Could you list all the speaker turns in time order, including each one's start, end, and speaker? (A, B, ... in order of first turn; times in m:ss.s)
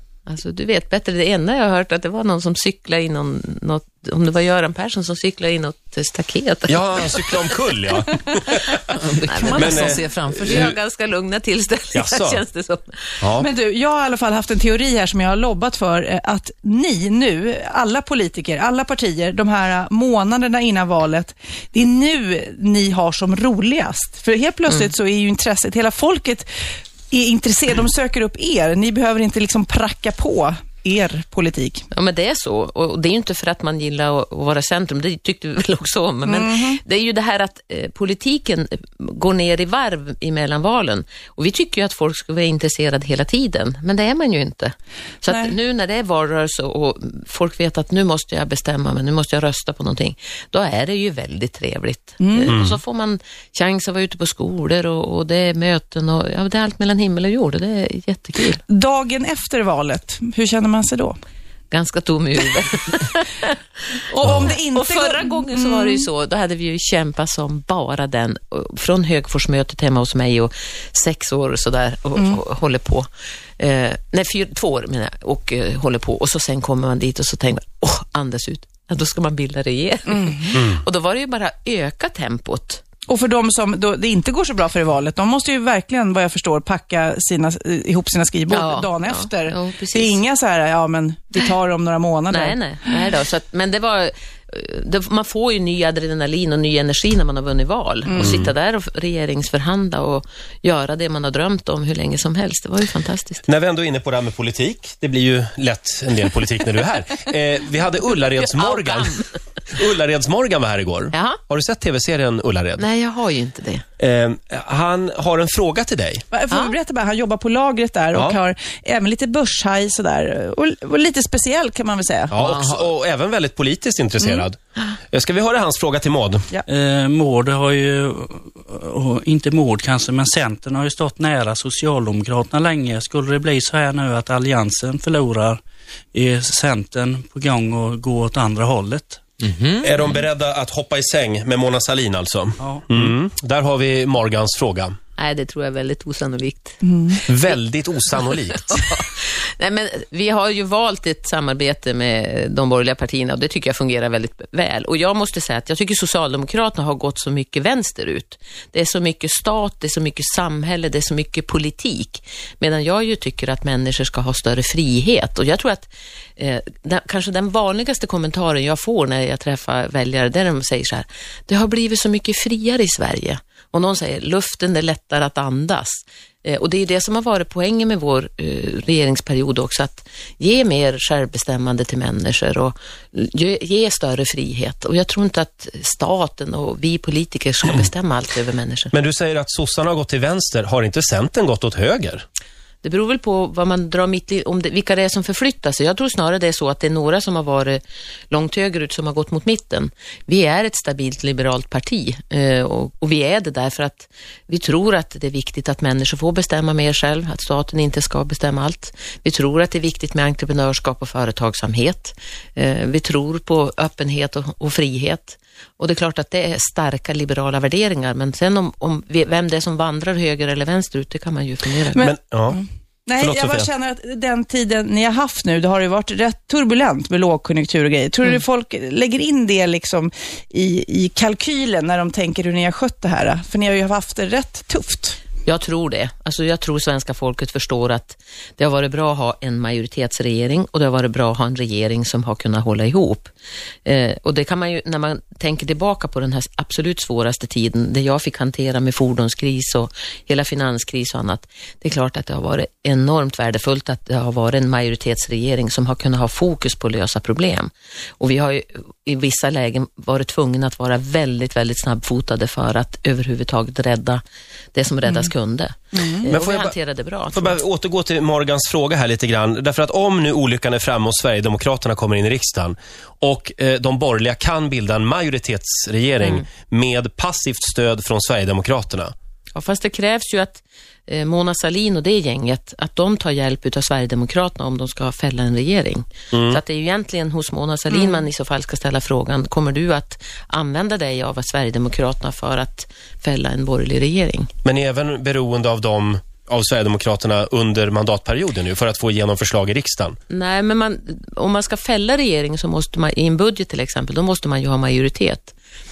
0:00.3-0:07.5 A
0:06.7-0:08.9 B
0:08.9-0:10.7 C
0:09.3-0:13.2 A
0:09.5-0:10.7 B
0:11.9-0:12.4 B
0:13.2-0:13.5 B
0:13.4-0:26.5 D
0:27.1-0:31.8 D
0:31.9-0:58.6 A
0:36.2-0:36.8 D
0:45.3-0:45.5 D
0:52.2-0:52.5 D
0:52.5-0:52.8 B
0:58.7-1:01.2 D
1:01.7-1:03.6 A
1:04.1-1:06.0 D
1:04.2-1:13.1 A
1:13.6-1:22.8 A
1:20.1-1:20.6 D
1:20.5-1:20.8 B
1:23.1-1:32.9 D
1:28.5-1:30.2 A
1:32.3-1:43.4 A
1:38.0-1:38.4 D
1:38.2-1:38.5 B
1:43.5-1:49.2 B
1:48.4-1:49.4 A
1:49.7-1:52.8 B
1:51.1-1:51.4 A
1:52.8-1:53.8 A
1:54.0-1:56.2 B
1:56.3-2:02.3 D
1:56.5-1:56.7 A
2:02.3-2:04.6 B
2:02.3-2:02.9 C
2:04.2-2:04.9 A
2:05.1-2:06.5 B
2:06.7-2:15.6 E
2:16.1-2:19.2 E
2:19.4-2:20.1 C
2:19.8-2:25.0 B
2:22.6-2:22.8 E
2:25.2-2:27.6 A
2:26.8-2:27.2 D
2:27.3-2:28.8 B
2:28.1-3:08.9 A
3:08.9-3:12.2 B
3:12.8-3:42.0 A
3:41.9-3:55.2 D
3:42.0-3:42.6 B
3:43.2-3:43.7 B
3:55.4-4:03.3 A
4:03.8-4:24.2 A
4:24.7-4:27.6 A
4:25.9-4:26.3 D
4:26.2-4:26.8 B
4:27.3-4:39.1 B
4:39.6-4:54.5 A
4:46.3-4:46.6 B
4:54.6-5:00.2 B
5:00.3-5:05.5 A